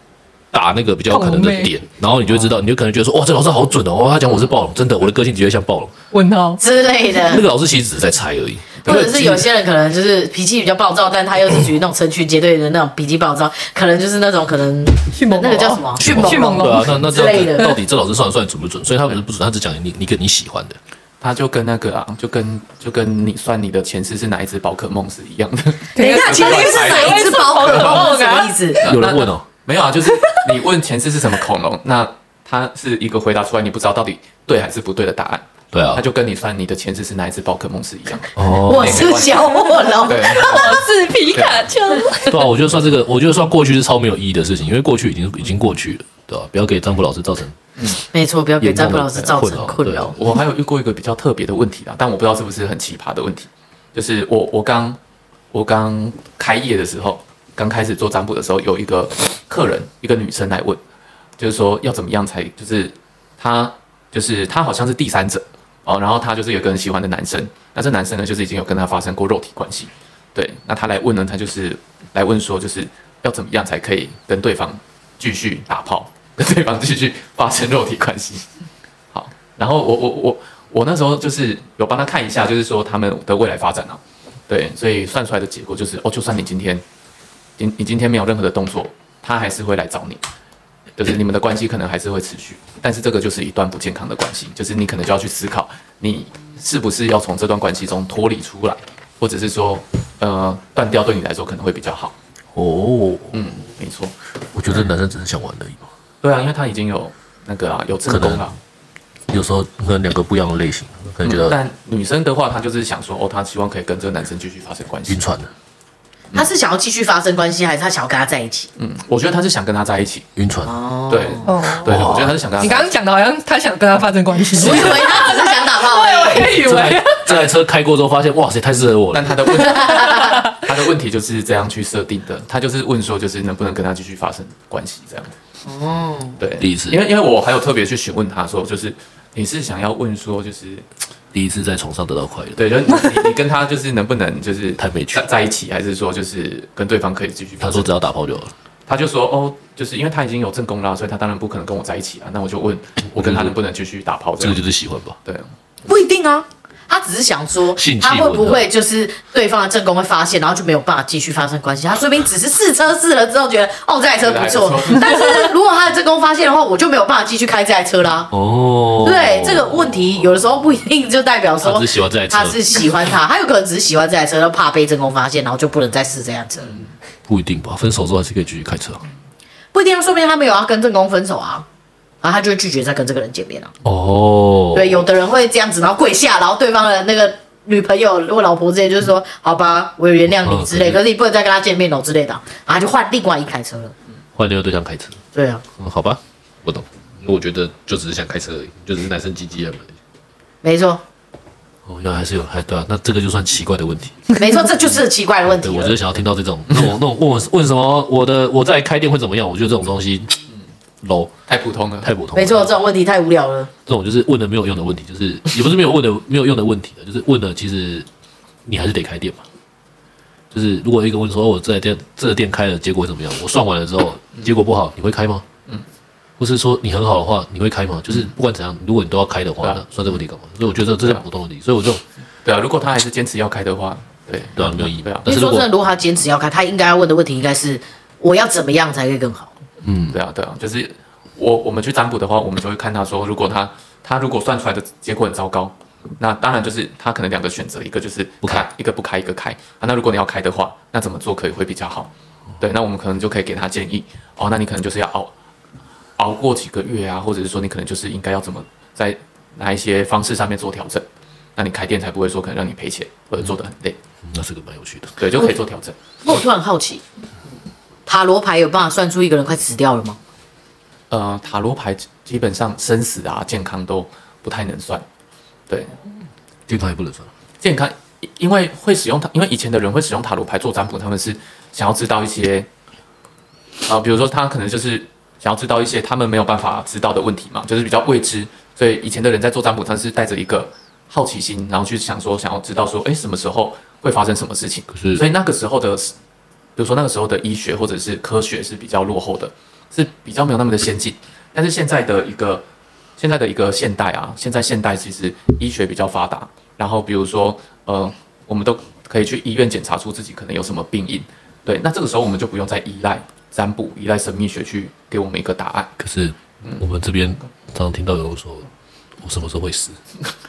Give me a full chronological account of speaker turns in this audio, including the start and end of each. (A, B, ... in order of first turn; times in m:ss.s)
0:00.5-0:05.9 A
0:01.1-0:01.7 B
0:04.2-0:04.5 C
0:06.1-0:06.6 B
0:06.6-0:07.4 D
0:07.2-0:09.4 A
0:08.8-0:09.2 C
0:08.8-0:17.8 D
0:15.1-0:17.0 B
0:16.0-0:20.8 A
0:21.2-0:28.2 C
0:25.9-0:28.9 B
0:26.0-0:28.8 D
0:28.8-0:41.7 C
0:28.8-0:29.4 A
0:35.7-0:36.0 A
0:38.3-0:39.2 A
0:38.5-0:40.7 D
0:39.4-0:42.5 B
0:42.2-0:47.6 A
0:48.1-0:50.2 D
0:48.6-0:50.1 A
0:50.1-0:55.0 C
0:55.5-1:00.8 C
1:01.4-1:18.4 C
1:19.1-1:26.8 C
1:27.6-1:30.2 C
1:31.0-1:42.1 C
1:42.5-1:43.4 A
1:43.3-1:44.2 C
1:44.5-1:45.9 A
1:46.2-1:48.5 C
1:48.1-1:48.5 A
1:49.3-1:51.6 A
1:51.2-1:55.2 C
1:55.1-1:55.5 A
1:56.3-1:58.7 D
1:58.8-2:00.3 C
2:00.4-2:00.7 A
2:00.6-2:01.5 D
2:01.1-2:02.9 C
2:01.5-2:02.1 B
2:01.8-2:02.3 A
2:02.6-2:07.2 B
2:04.5-2:06.6 D
2:06.4-2:09.6 A
2:08.7-2:15.4 C
2:09.7-2:10.5 B
2:09.7-2:10.4 D
2:15.6-2:16.4 D
2:16.4-2:20.8 C
2:16.6-2:17.0 A
2:21.3-2:22.7 A
2:22.6-2:27.9 C
2:24.8-2:25.3 A
2:27.6-2:28.5 A
2:28.9-2:34.6 C
2:33.1-2:33.6 A
2:34.4-2:35.2 A
2:35.8-2:48.3 D
2:37.7-2:38.7 A
2:44.2-2:45.4 C
2:48.3-2:49.9 A
2:49.0-2:56.7 D
2:51.6-2:52.6 A
2:57.3-2:59.0 A
2:59.7-3:01.6 D
3:02.2-3:03.7 D
3:03.8-3:05.0 A
3:04.7-3:13.9 D
3:10.3-3:11.0 A
3:14.3-3:15.2 A
3:15.3-3:15.6 D
3:15.8-3:19.9 A
3:20.6-3:21.0 D
3:21.8-3:24.2 A
3:24.3-3:26.0 D
3:25.4-3:30.4 A
3:31.0-3:31.3 A
3:31.5-3:32.1 C
3:32.0-3:32.7 A
3:32.3-3:33.7 D
3:33.8-3:38.1 A
3:38.6-3:39.4 A
3:40.5-3:45.4 A
3:46.4-3:52.0 A
3:49.6-3:50.2 C
3:52.4-3:55.3 C
3:54.6-3:55.7 A
3:55.2-3:59.5 D
3:59.8-4:00.2 A
4:00.1-4:15.3 C
4:08.4-4:08.7 A
4:16.2-4:24.0 C
4:24.2-4:25.2 A
4:25.2-4:26.0 C
4:26.2-4:27.0 D
4:28.0-4:30.2 D
4:31.1-4:35.0 C
4:35.7-4:35.9 C
4:36.7-4:37.3 A
4:37.6-4:42.7 C
4:43.8-4:56.1 C
4:54.9-4:55.2 A
4:56.8-5:02.6 C
5:03.2-5:15.9 C
5:16.0-5:18.7 A
5:19.2-5:20.0 A